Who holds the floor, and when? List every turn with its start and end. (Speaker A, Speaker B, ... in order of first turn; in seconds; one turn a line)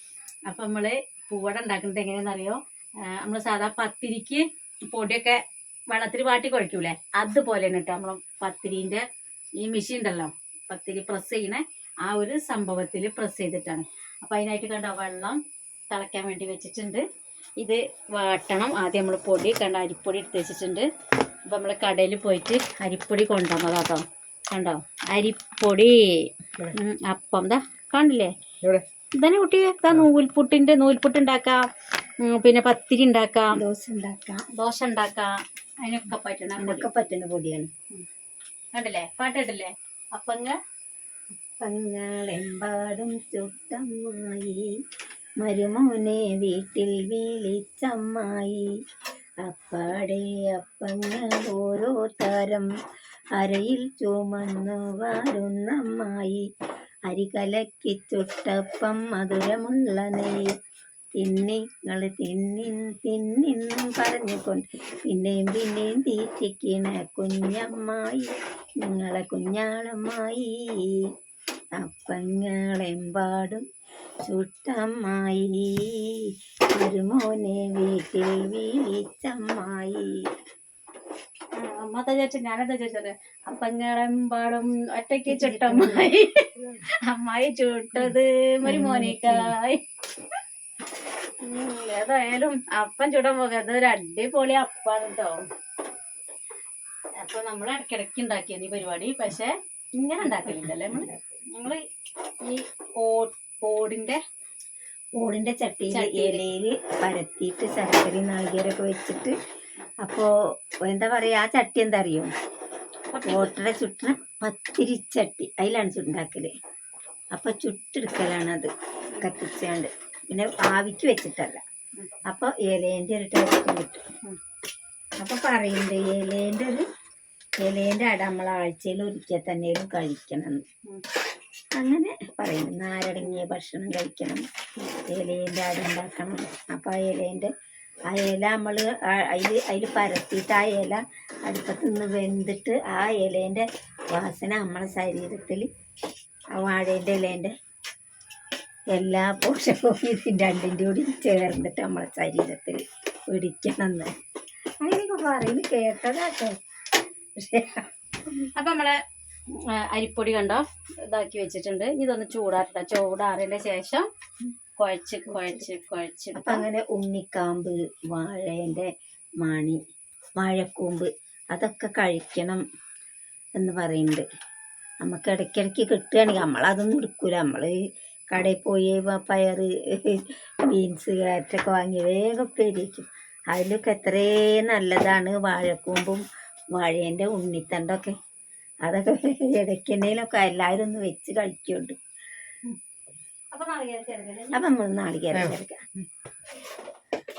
Speaker A: 0.5-9.0
Speaker A: 9.6-15.4
Speaker A: 15.9-17.0
Speaker A: 17.6-20.9
Speaker A: 21.4-28.3
Speaker A: 29.1-31.6
Speaker A: 32.2-33.6
Speaker B: 33.5-34.5
Speaker A: 34.5-36.8
Speaker B: 36.6-37.7
Speaker A: 38.7-40.6
Speaker B: 41.6-44.7
Speaker B: 45.4-48.7
Speaker B: 49.4-52.7
Speaker B: 53.4-56.5
Speaker B: 57.1-60.4
Speaker B: 61.2-71.0
Speaker B: 71.8-73.6
Speaker B: 74.2-80.1
Speaker A: 81.5-86.5
Speaker B: 85.3-86.1
Speaker A: 87.0-89.8
Speaker B: 88.6-89.5
Speaker A: 91.4-95.4
Speaker A: 97.2-101.8
Speaker B: 100.2-101.2
Speaker A: 102.4-104.2
Speaker B: 105.1-109.4
Speaker A: 105.9-106.4
Speaker B: 110.0-110.3
Speaker B: 110.8-112.3
Speaker A: 113.1-113.5
Speaker B: 113.2-116.5
Speaker B: 117.3-121.6
Speaker B: 122.3-124.0
Speaker B: 125.2-126.8
Speaker B: 127.6-130.6
Speaker B: 131.8-134.4
Speaker B: 135.1-137.5
Speaker B: 138.1-145.7
Speaker B: 146.5-147.5
Speaker B: 148.9-154.1
Speaker B: 154.8-156.5
Speaker B: 157.4-157.9
Speaker A: 158.5-159.0
Speaker A: 159.5-164.1
Speaker A: 164.8-166.6
Speaker B: 165.3-165.7
Speaker B: 166.3-168.9
Speaker B: 169.4-169.8
Speaker B: 170.4-172.6
Speaker B: 173.6-174.2
Speaker B: 175.0-177.8
Speaker B: 178.3-188.2
Speaker B: 188.8-191.9
Speaker A: 193.5-194.6
Speaker B: 194.5-195.8